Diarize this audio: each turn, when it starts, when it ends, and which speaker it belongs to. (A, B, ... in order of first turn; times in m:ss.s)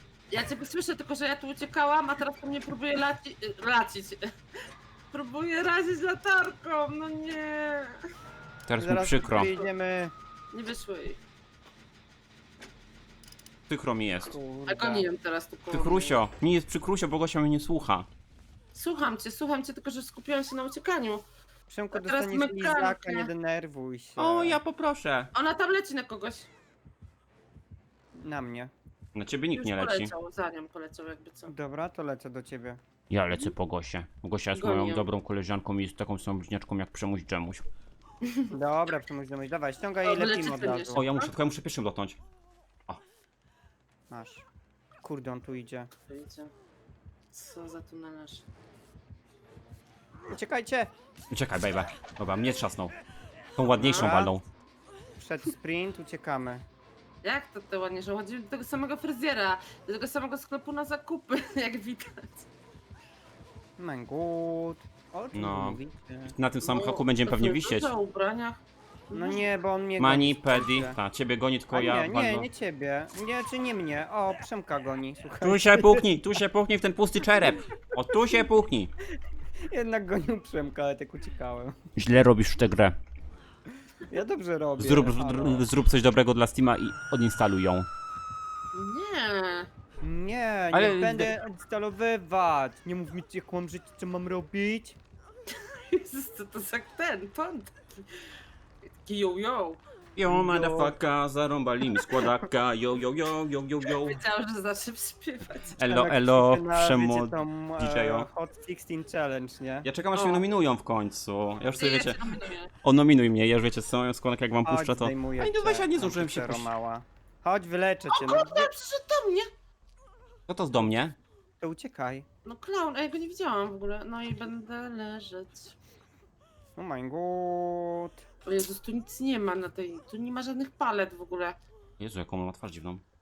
0:00.3-0:04.3 A
0:05.1-0:08.1 A
0:08.6-0:09.5 B
0:08.8-0:10.1 C
0:10.5-0:11.2 A
0:13.7-0:14.4 B
0:14.2-0:15.1 C
0:14.7-0:16.2 A
0:15.7-0:18.1 B
0:18.7-0:21.2 A
0:21.7-0:24.6 C
0:21.9-0:23.3 A
0:24.2-0:25.3 B
0:25.3-0:26.5 A
0:28.2-0:28.7 C
0:29.1-0:30.1 B
0:29.5-0:31.5 A
0:31.5-0:32.8 C
0:33.1-0:37.6 B
0:34.5-0:35.1 A
0:38.2-0:38.5 A
0:38.5-0:41.0 C
0:40.0-0:41.3 A
0:41.0-0:42.2 B
0:44.1-0:44.5 C
0:45.0-0:45.9 C
0:46.1-0:46.5 A
0:47.3-0:48.4 A
0:50.3-0:50.9 C
0:51.3-0:52.9 B
0:53.6-0:54.4 B
0:53.8-0:54.4 C
0:53.8-0:54.1 A
0:55.2-0:56.6 C
0:57.2-1:02.5 A
1:03.8-1:06.4 C
1:05.3-1:07.9 B
1:06.6-1:09.4 A
1:09.1-1:11.0 C
1:10.0-1:12.5 B
1:11.7-1:16.1 C
1:15.4-1:18.9 B
1:19.6-1:21.8 C
1:22.0-1:23.0 B
1:24.1-1:25.7 C
1:24.8-1:27.9 B
1:28.7-1:29.7 A
1:30.0-1:35.0 C
1:30.7-1:31.4 B
1:35.5-1:38.2 A
1:38.9-1:39.8 A
1:40.2-1:44.2 B
1:40.2-1:41.0 C
1:43.9-1:45.8 A
1:45.8-1:48.3 B
1:45.8-1:49.9 C
1:49.8-1:56.7 B
1:50.1-1:50.4 A
1:51.8-1:52.7 A
1:54.6-1:58.7 C
1:58.1-1:59.5 A
2:00.5-2:01.2 B
2:01.6-2:02.2 C
2:02.4-2:05.8 A
2:06.8-2:08.2 C
2:08.4-2:11.6 A
2:12.0-2:13.0 B